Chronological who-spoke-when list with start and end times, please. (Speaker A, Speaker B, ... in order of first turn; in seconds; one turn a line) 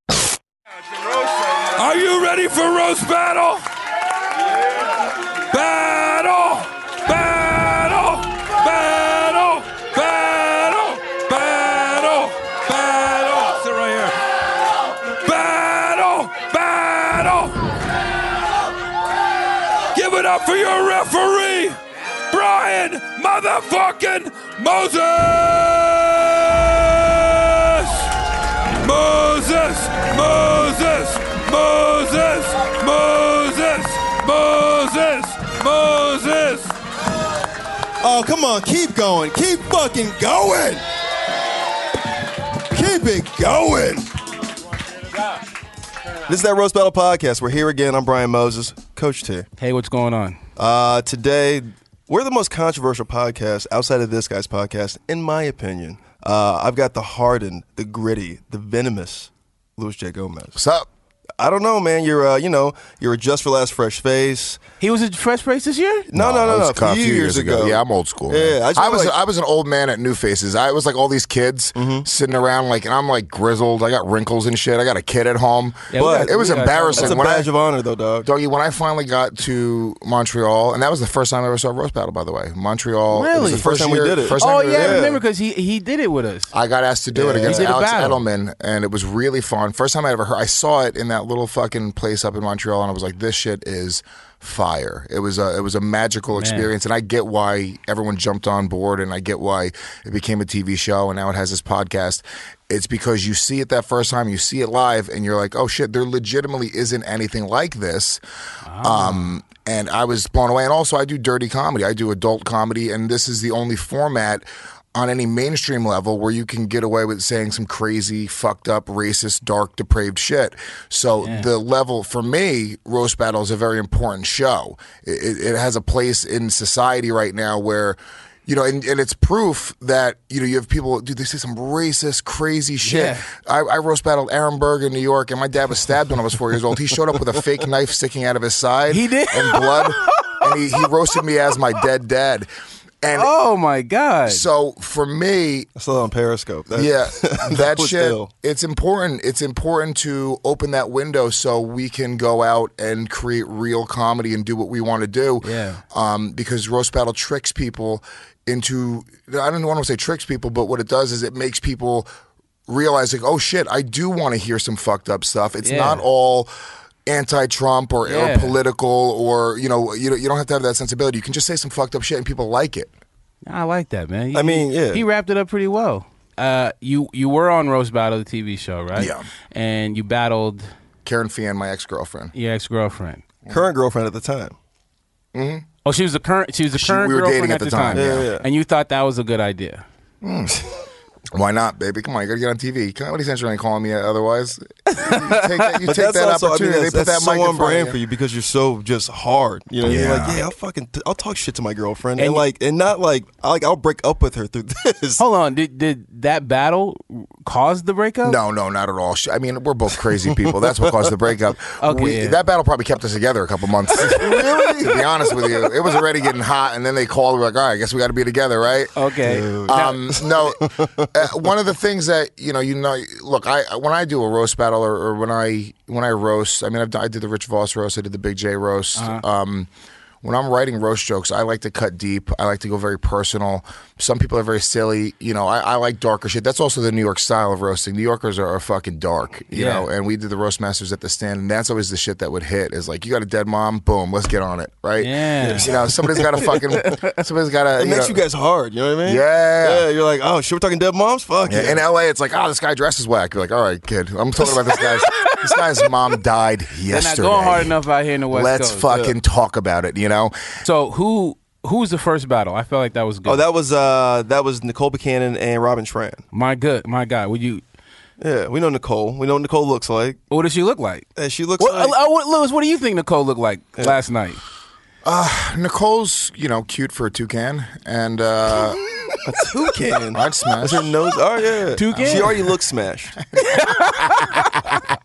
Speaker A: 1.7-3.6
Speaker A: 5.5-14.2
Speaker A: 15.2-17.5
Speaker A: 19.9-21.8
Speaker A: 22.3-28.1
Speaker A: 28.8-36.7
Speaker B: 38.0-40.8
Speaker B: 42.7-44.1
Speaker B: 46.3-49.5
Speaker C: 49.6-50.4
Speaker B: 50.6-60.6
Speaker D: 60.5-60.9
Speaker B: 61.4-64.6
Speaker C: 64.8-66.1
Speaker B: 66.1-69.1
Speaker D: 66.1-77.5
Speaker B: 71.8-72.0
Speaker C: 75.9-77.2
Speaker B: 76.0-76.4
Speaker B: 77.0-78.3
Speaker D: 78.2-85.0
Speaker C: 83.1-83.7
Speaker B: 83.5-85.2
Speaker C: 84.3-86.5
Speaker D: 86.5-108.2
Speaker B: 87.1-87.7
Speaker C: 87.4-88.2
Speaker C: 96.3-96.7
Speaker C: 108.6-109.3
Speaker D: 108.8-142.5
Speaker C: 121.2-121.5
Speaker C: 132.8-133.2
Speaker C: 138.9-140.4
Speaker D: 143.0-143.3
Speaker C: 143.2-144.5
Speaker D: 144.3-145.7
Speaker B: 145.8-148.3
Speaker D: 146.8-162.1
Speaker C: 155.4-155.8
Speaker D: 162.7-166.5
Speaker C: 165.6-166.0
Speaker D: 167.1-172.9
Speaker C: 168.1-168.6
Speaker C: 173.5-180.7
Speaker B: 174.3-175.0
Speaker D: 178.9-179.3
Speaker D: 181.1-182.3
Speaker C: 182.3-183.2
Speaker B: 183.5-184.6
Speaker D: 185.3-185.7
Speaker C: 185.8-189.8
Speaker D: 186.7-188.3
Speaker B: 187.9-188.5
Speaker D: 190.2-190.7
Speaker D: 191.3-198.0
Speaker C: 194.9-195.9
Speaker B: 195.9-205.2
Speaker D: 199.8-200.5
Speaker C: 202.2-202.4
Speaker C: 205.2-208.4
Speaker D: 208.2-218.9
Speaker C: 211.8-212.4
Speaker B: 214.0-215.1
Speaker C: 219.0-220.2
Speaker B: 219.2-220.6
Speaker D: 219.7-229.7
Speaker C: 229.0-229.2
Speaker D: 230.2-248.2
Speaker C: 239.5-239.9
Speaker C: 245.0-245.7
Speaker B: 245.4-245.8
Speaker C: 246.4-247.2
Speaker B: 247.8-251.8
Speaker D: 249.1-249.9
Speaker D: 251.5-257.8
Speaker C: 256.9-258.9
Speaker D: 258.3-260.3
Speaker B: 258.9-259.1
Speaker C: 260.6-263.4
Speaker B: 263.2-266.2
Speaker C: 266.3-267.6
Speaker B: 268.2-270.2
Speaker C: 270.3-274.4
Speaker B: 271.2-272.0
Speaker D: 275.0-279.2
Speaker B: 279.2-283.2
Speaker D: 280.1-280.9
Speaker C: 281.8-282.4
Speaker D: 282.0-282.2
Speaker C: 283.4-284.6